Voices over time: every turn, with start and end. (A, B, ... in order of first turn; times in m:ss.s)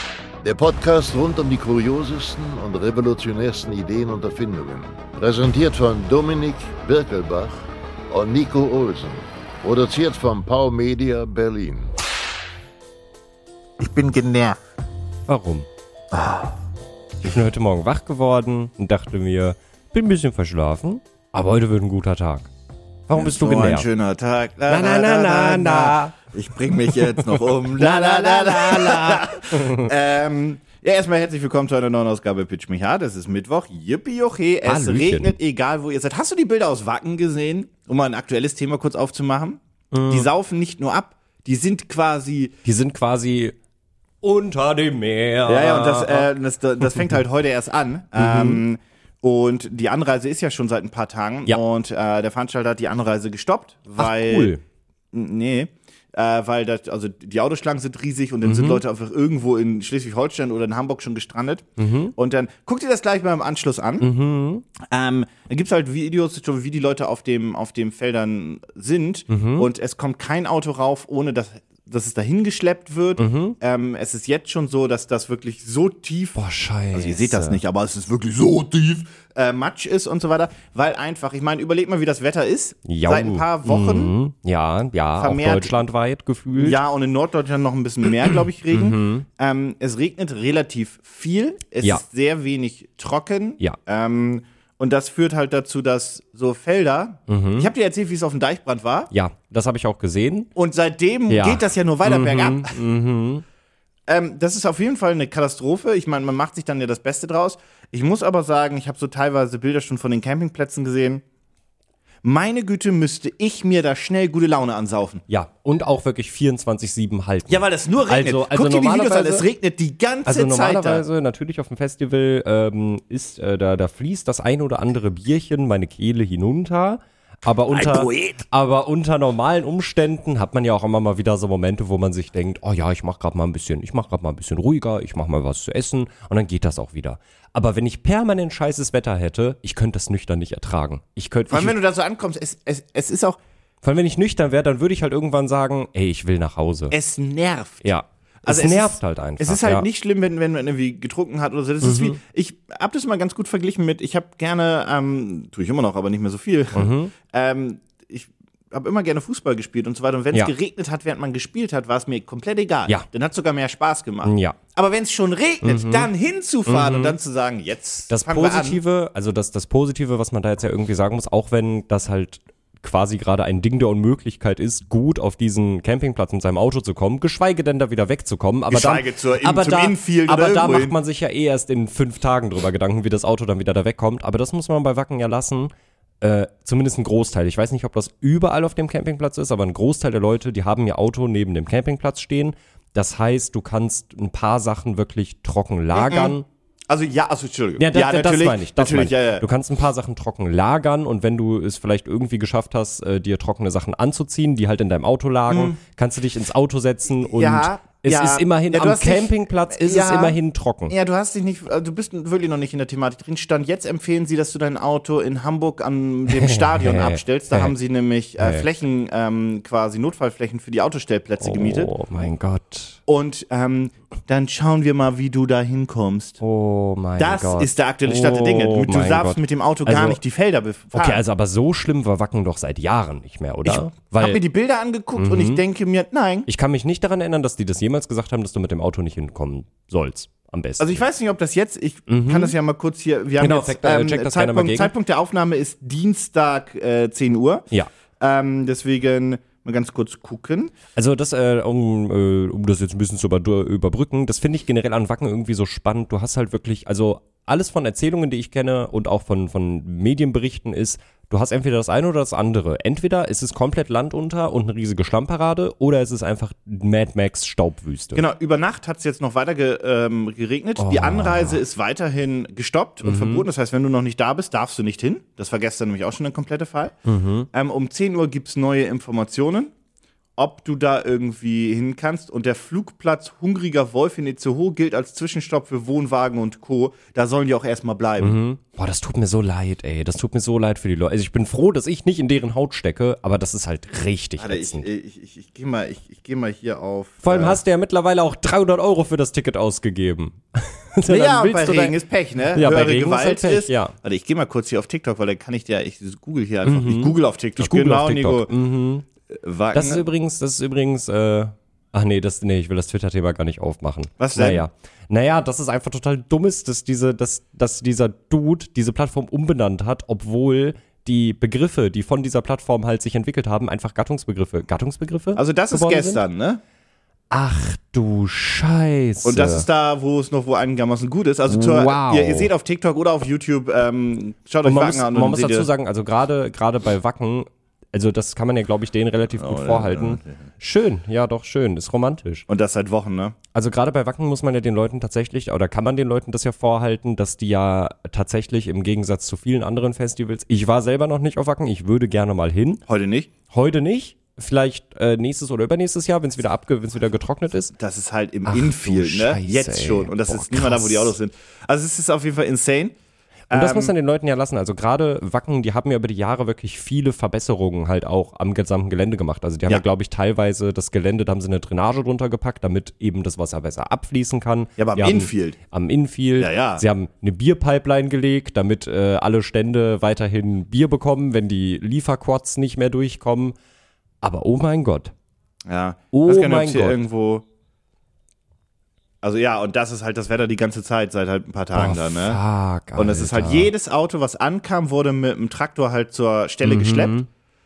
0:00.4-0:11.9 A
0:13.8-0:14.6 B
0:15.3-0:15.7 C
0:17.2-0:22.5 C
0:23.1-0:23.9 C
0:23.1-0:42.5 B
0:24.7-0:26.2 C
0:26.9-0:29.9 C
0:34.6-0:35.3 C
0:39.9-0:40.3 C
0:42.6-0:43.5 C
0:44.2-0:46.3 C
0:45.5-0:54.5 B
0:48.2-0:48.6 C
0:54.0-0:54.6 C
0:55.1-1:04.1 B
0:58.4-0:58.8 C
1:01.8-1:02.1 C
1:04.0-1:04.6 C
1:04.8-1:16.4 B
1:09.3-1:09.7 C
1:13.2-1:13.6 C
1:16.3-1:17.6 C
1:16.9-1:24.1 B
1:22.8-1:26.8 C
1:25.2-1:25.8 B
1:26.6-1:39.1 B
1:28.7-1:29.2 C
1:37.3-1:37.7 C
1:39.1-1:40.5 C
1:40.5-1:42.8 B
1:41.3-1:43.4 C
1:44.1-1:51.2 B
1:52.2-1:55.2 B
1:55.3-1:59.4 C
1:57.5-2:01.0 B
2:00.2-2:21.8 C
2:07.7-2:08.4 B
2:21.5-2:23.4 B
2:23.8-2:27.0 C
2:26.9-2:48.8 B
2:27.8-2:29.9 C
2:31.8-2:32.2 C
2:36.7-2:37.1 C
2:44.2-2:44.6 C
2:45.6-2:46.1 C
2:46.6-2:47.2 C
2:48.1-3:16.5 C
2:58.7-3:01.0 B
3:15.9-3:16.3 B
3:16.9-3:19.4 B
3:17.8-3:30.9 C
3:25.5-3:25.8 B
3:27.2-3:30.4 B
3:30.9-3:41.9 B
3:36.3-3:37.7 C
3:38.4-3:38.7 C
3:41.4-3:43.0 C
3:43.1-3:46.4 B
3:46.4-3:50.2 C
3:47.2-3:51.2 B
3:50.9-3:54.4 C
3:53.6-3:56.5 B
3:55.2-3:55.6 C
3:56.5-4:01.0 C
4:00.8-4:10.7 B
4:02.1-4:02.5 C
4:03.4-4:04.9 C
4:11.0-4:28.2 C
4:28.1-4:37.0 B
4:30.8-4:31.6 C
4:33.0-4:33.4 C
4:37.0-4:37.5 C
4:37.5-4:39.7 B
4:40.4-4:48.4 B
4:48.2-4:54.9 C
4:54.4-4:57.6 B
4:57.2-5:02.0 C
5:01.1-5:08.5 B
5:02.5-5:03.9 C
5:06.6-5:09.0 C
5:09.3-5:10.0 B
5:09.7-5:26.2 C
5:14.2-5:14.6 B
5:25.4-5:26.6 B
5:27.3-5:29.6 C
5:29.2-5:35.7 B
5:31.5-5:32.5 C
5:34.6-5:42.4 C
5:39.3-5:40.4 B
5:42.5-5:43.4 B
5:43.5-5:52.8 C
5:52.9-5:53.3 B
5:53.5-5:57.7 C
5:57.7-6:03.0 B
5:58.4-6:01.1 C
6:03.5-6:03.9 B
6:03.5-6:23.5 C
6:14.8-6:15.6 B
6:16.4-6:16.8 B
6:24.2-6:25.1 C
6:25.7-6:27.4 B
6:26.1-6:27.0 C
6:29.2-6:32.4 B
6:31.7-6:33.7 C
6:32.9-6:37.1 B
6:36.6-6:37.3 C